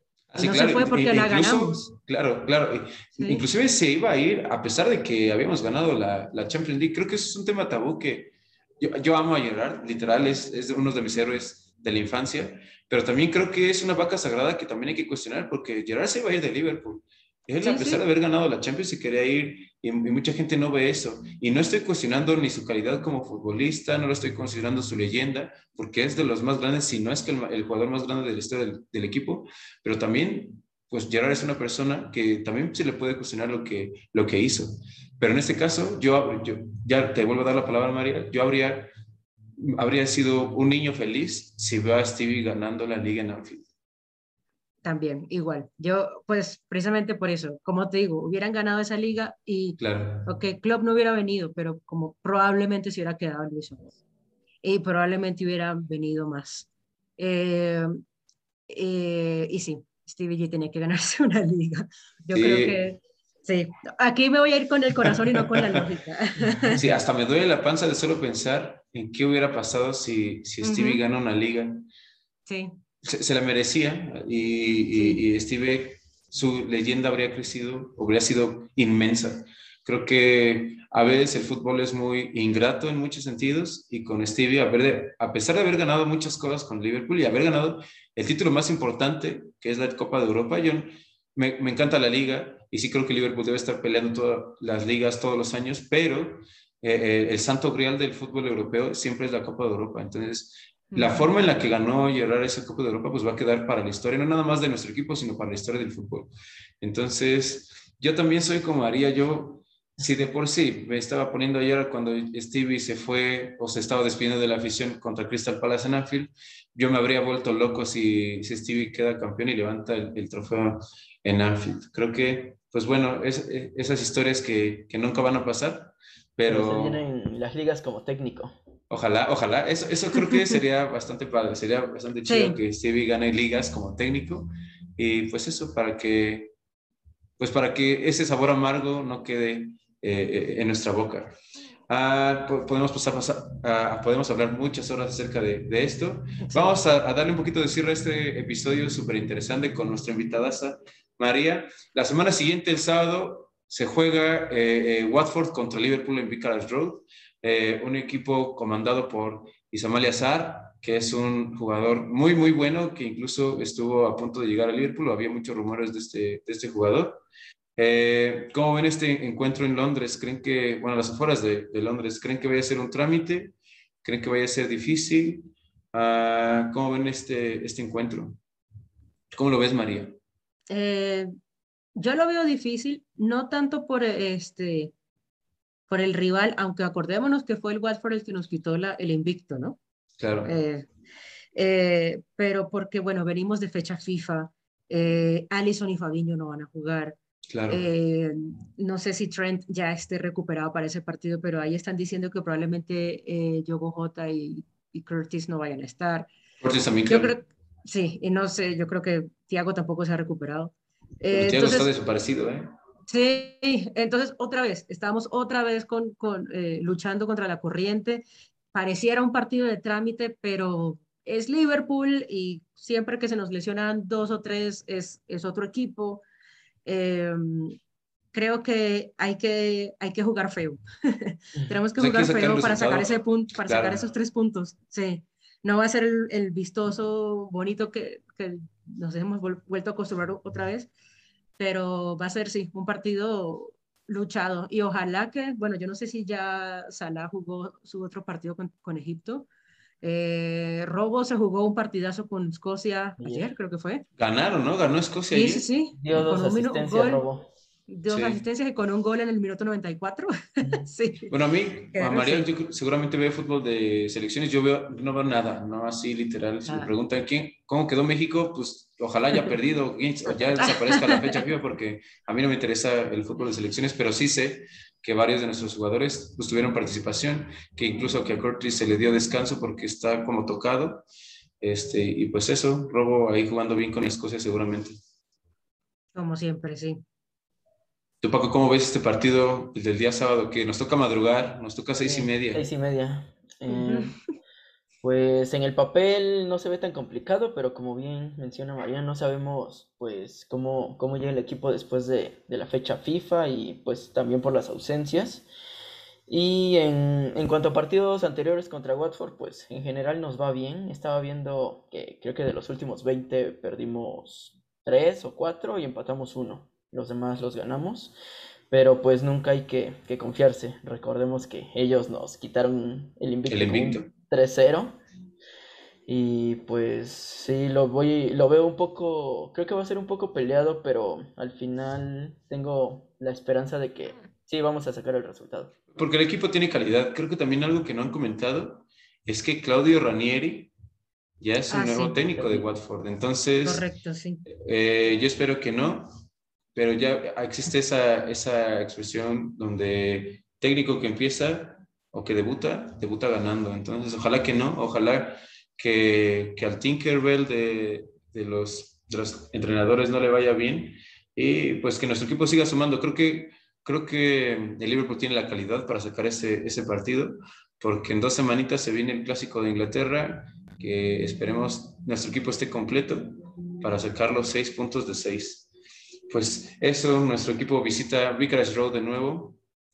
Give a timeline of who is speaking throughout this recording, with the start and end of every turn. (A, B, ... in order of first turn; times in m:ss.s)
0:00.3-0:38.9 A
0:00.4-0:01.8 B
0:03.2-0:03.4 B
0:17.6-0:18.0 B
0:39.6-0:43.6 A
0:44.8-0:53.8 B
0:49.8-0:50.3 A
0:54.6-0:57.9 B
0:58.7-1:06.8 B
1:02.3-1:02.8 A
1:05.3-1:05.6 A
1:06.7-1:11.9 A
1:10.6-1:11.0 B
1:12.5-1:12.8 B
1:13.0-2:07.0 A
1:14.9-1:15.2 B
1:40.9-1:41.2 B
2:06.5-2:08.6 C
2:08.9-2:16.5 A
2:12.3-2:12.6 B
2:17.4-2:21.4 A
2:21.9-2:47.2 A
2:26.4-2:26.8 B
2:47.8-2:58.4 A
2:59.3-3:00.2 A
3:00.7-3:01.3 B
3:02.0-3:04.9 B
3:05.9-3:09.8 B
3:10.2-3:10.5 A
3:10.4-3:10.9 B
3:11.6-3:17.2 B
3:17.5-3:17.8 A
3:17.7-3:26.3 B
3:26.6-3:27.4 A
3:27.1-3:31.9 B
3:31.3-3:32.7 A
3:33.1-3:46.2 B
3:46.8-3:47.8 B
3:48.3-4:00.9 B
3:52.0-3:54.0 A
4:01.6-4:09.5 B
4:10.0-4:14.0 B
4:13.2-4:13.5 C
4:14.2-4:15.7 A
4:15.3-4:17.2 B
4:16.0-4:17.5 C
4:17.9-4:21.3 B
4:18.1-4:18.4 A
4:21.3-4:41.0 A
4:21.9-4:22.5 B
4:26.7-4:26.9 B
4:30.7-4:31.2 B
4:41.6-4:45.0 A
4:46.2-4:47.0 B
4:48.2-4:52.6 A
4:52.0-4:54.2 C
4:53.7-4:54.1 B
4:55.0-5:05.5 C
5:06.3-5:18.2 C
5:18.7-5:25.0 C
5:23.5-5:24.1 A
5:26.1-5:35.7 C
5:35.9-5:40.7 A
5:41.4-5:43.9 A
5:41.7-5:42.2 B
5:42.3-5:42.6 C
5:43.6-5:44.4 B
5:44.5-5:46.1 A
5:46.8-6:15.7 A
6:16.3-6:19.6 A